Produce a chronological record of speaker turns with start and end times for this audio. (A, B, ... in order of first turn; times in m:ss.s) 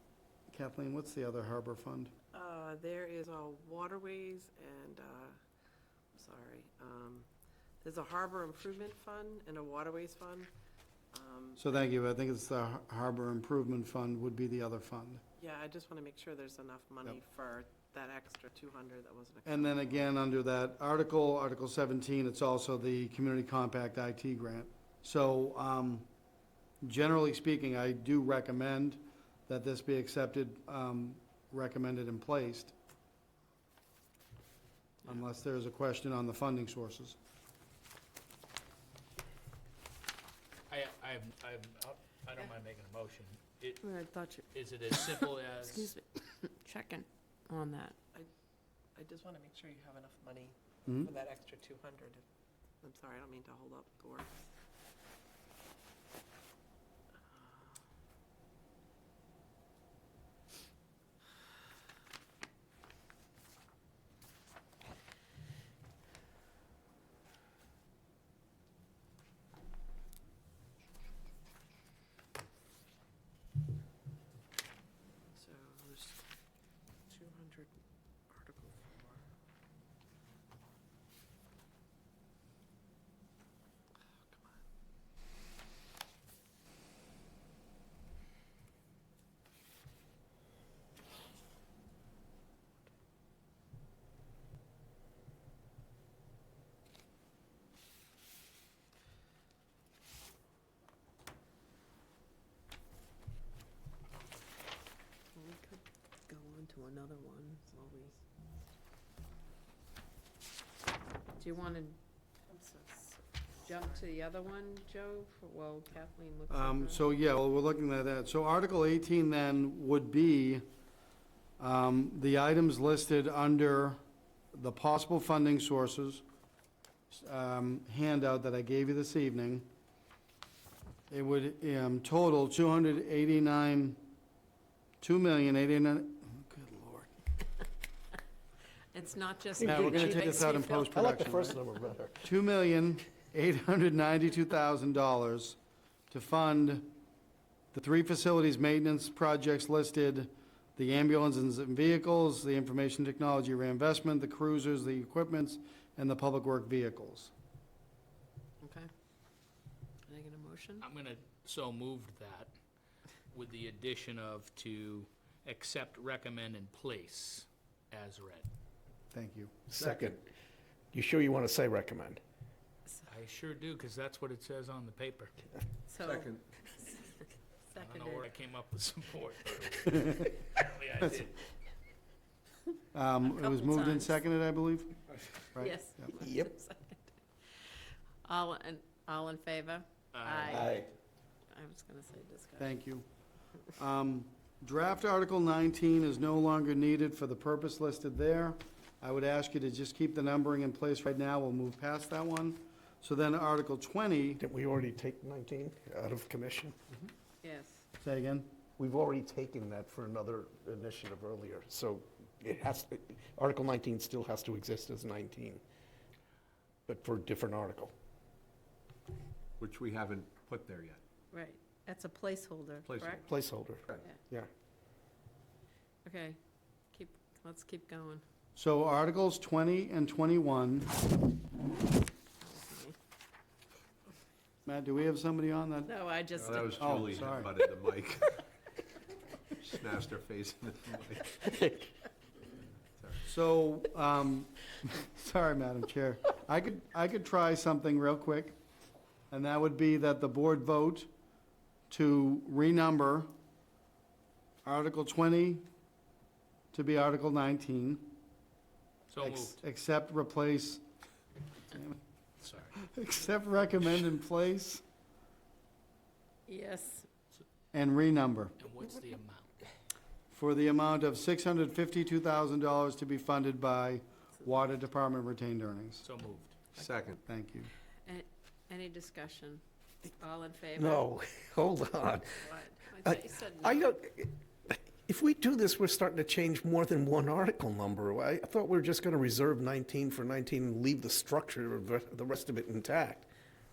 0:00.5-0:02.1 A
0:02.3-0:05.4 B
0:06.1-0:07.3 B
0:07.8-0:10.5 B
0:11.1-0:11.7 B
0:11.6-0:15.2 A
0:15.4-0:20.2 B
0:19.4-0:26.1 A
0:26.8-0:32.7 A
0:35.0-0:37.2 A
0:40.7-0:43.8 C
0:43.8-0:48.0 D
0:44.5-0:45.9 C
0:48.9-0:52.2 B
0:52.8-0:54.4 B
0:57.2-0:57.8 B
1:15.3-1:16.2 B
1:17.1-1:17.7 B
1:18.3-1:19.2 B
1:24.3-1:24.6 B
1:45.3-1:48.1 D
1:51.4-1:52.0 D
1:52.6-1:52.9 B
1:53.6-1:57.1 D
1:53.7-1:54.0 B
1:56.5-2:00.6 A
2:01.6-2:04.0 A
2:04.5-2:06.2 A
2:07.1-2:09.7 A
2:11.1-2:14.0 A
2:15.0-2:17.1 A
2:18.9-2:20.9 D
2:19.6-2:21.6 A
2:19.6-2:22.3 E
2:22.2-2:25.6 A
2:26.1-2:27.0 A
2:27.7-2:37.3 A
2:38.6-2:38.9 D
2:40.1-2:40.8 D
2:40.8-2:42.5 C
2:43.3-2:48.5 C
2:49.1-2:50.2 A
2:49.7-2:50.2 E
2:50.9-2:52.2 E
2:53.1-2:55.3 C
2:55.9-2:58.3 D
2:56.0-2:56.4 F
2:57.8-3:01.4 C
3:02.9-3:04.9 A
3:03.2-3:04.2 D
3:05.6-3:07.1 D
3:06.2-3:06.5 E
3:08.2-3:10.9 D
3:10.1-3:10.7 C
3:10.5-3:10.9 E
3:11.5-3:12.7 D
3:12.6-3:13.0 A
3:13.7-3:24.4 A
3:24.4-3:26.7 E
3:27.4-3:27.8 D
3:28.0-3:28.5 A
3:28.8-3:35.6 E
3:36.9-3:37.9 E
3:39.6-3:41.0 F
3:41.3-3:43.2 D
3:42.8-3:43.3 F
3:43.3-3:44.5 E
3:46.0-3:46.4 D
3:46.9-3:48.2 D
3:48.6-3:50.9 A
3:52.4-3:53.0 D
3:54.6-3:55.9 A
3:55.8-3:56.9 D
3:56.4-3:58.4 F
3:56.6-3:57.5 A
3:59.6-4:01.4 F
4:01.5-4:01.9 E
4:03.2-4:08.6 A
4:09.3-4:11.1 A
4:11.9-4:13.3 A
4:14.6-4:15.6 A
4:16.7-4:18.1 A
4:19.1-4:19.6 C
4:19.2-4:20.8 A
4:21.7-4:22.0 A
4:22.4-4:22.8 C
4:22.7-4:24.8 A
4:26.5-4:27.1 D
4:27.7-4:28.6 A
4:28.6-4:29.6 C
4:30.3-4:36.0 A
4:36.0-4:36.6 C
4:36.8-4:37.2 F
4:37.2-4:37.7 A
4:38.0-4:41.1 D
4:40.8-4:42.5 E
4:42.4-4:43.8 D
4:43.0-4:53.3 E